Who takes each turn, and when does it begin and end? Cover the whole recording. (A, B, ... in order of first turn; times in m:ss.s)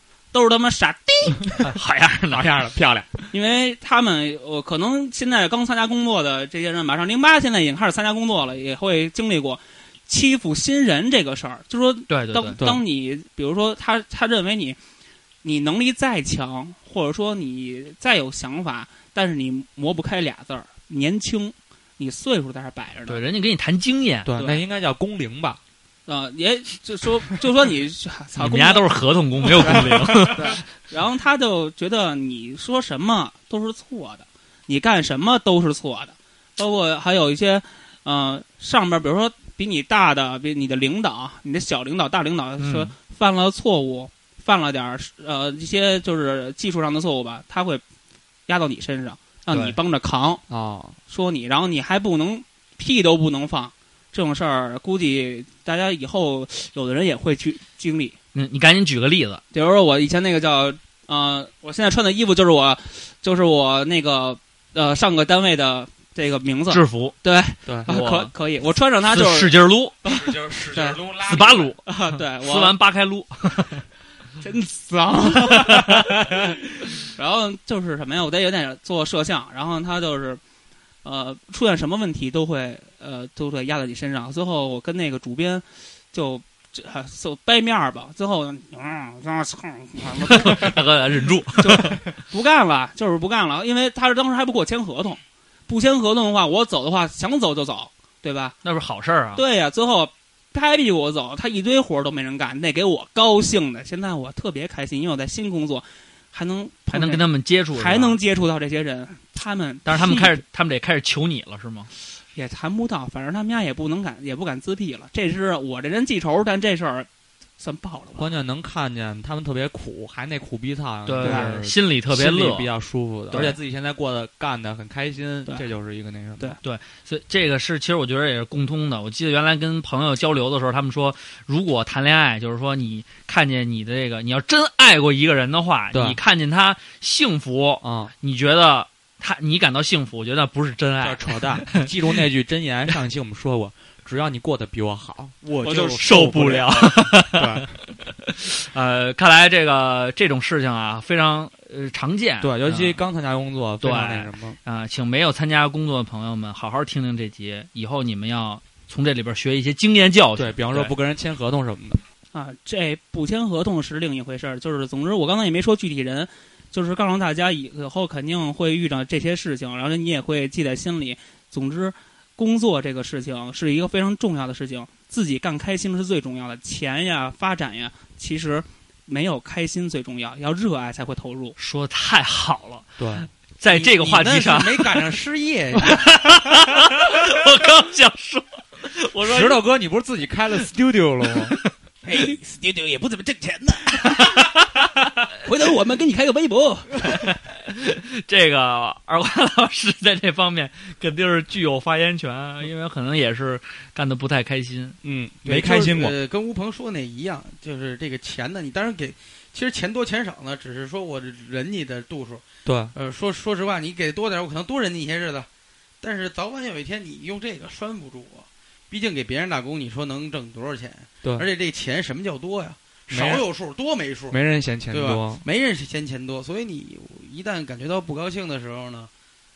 0:00.3-0:01.5 A
0:01.7-0:02.5 B
0:02.3-0:03.3 C
0:03.3-0:14.8 A
0:12.1-0:12.6 B
0:15.4-0:23.2 A
0:23.1-0:24.3 B
0:24.2-0:25.6 C
0:24.3-0:24.6 A
0:26.1-0:47.8 A
0:28.4-0:30.6 B
0:29.7-0:30.5 C
0:42.6-0:42.9 B
0:48.5-0:50.4 A
0:49.5-0:49.8 B
0:50.5-0:51.0 C
0:51.1-0:58.2 A
0:58.3-0:59.4 B
0:59.5-1:11.1 A
1:06.7-1:07.2 B
1:07.6-1:07.9 C
1:07.9-1:08.3 B
1:09.0-1:10.0 B
1:10.0-1:11.7 C
1:11.2-1:11.8 B
1:11.8-1:12.8 A
1:12.4-1:13.7 B
1:14.4-1:16.6 A
1:17.2-1:20.4 A
1:21.0-1:30.7 A
1:30.2-1:32.0 B
1:31.6-1:38.6 A
1:38.6-1:39.4 B
1:39.4-1:50.4 A
1:46.9-1:48.2 B
1:49.8-1:51.9 B
1:52.3-1:58.4 A
1:58.2-2:06.5 C
2:01.0-2:02.7 B
2:01.2-2:01.6 A
2:03.3-2:03.6 B
2:06.6-2:22.2 B
2:15.9-2:16.2 C
2:17.8-2:18.1 C
2:21.0-2:27.7 C
2:25.7-2:27.7 B
2:28.3-2:33.0 B
2:32.4-2:34.6 C
2:33.8-2:40.9 B
2:40.3-2:42.0 C
2:42.3-3:01.5 A
3:01.6-3:03.0 B
3:03.0-3:03.3 C
3:03.6-3:05.0 B
3:03.6-3:06.0 D
3:05.8-3:09.6 B
3:09.2-3:11.6 C
3:12.0-3:14.0 E
3:14.1-3:14.4 A
3:15.4-3:17.2 A
3:17.7-3:25.0 B
3:25.0-3:26.2 C
3:25.4-3:35.5 D
3:32.6-3:32.9 C
3:36.0-3:49.1 D
3:41.2-3:41.5 C
3:43.1-3:43.4 C
3:44.3-3:45.4 C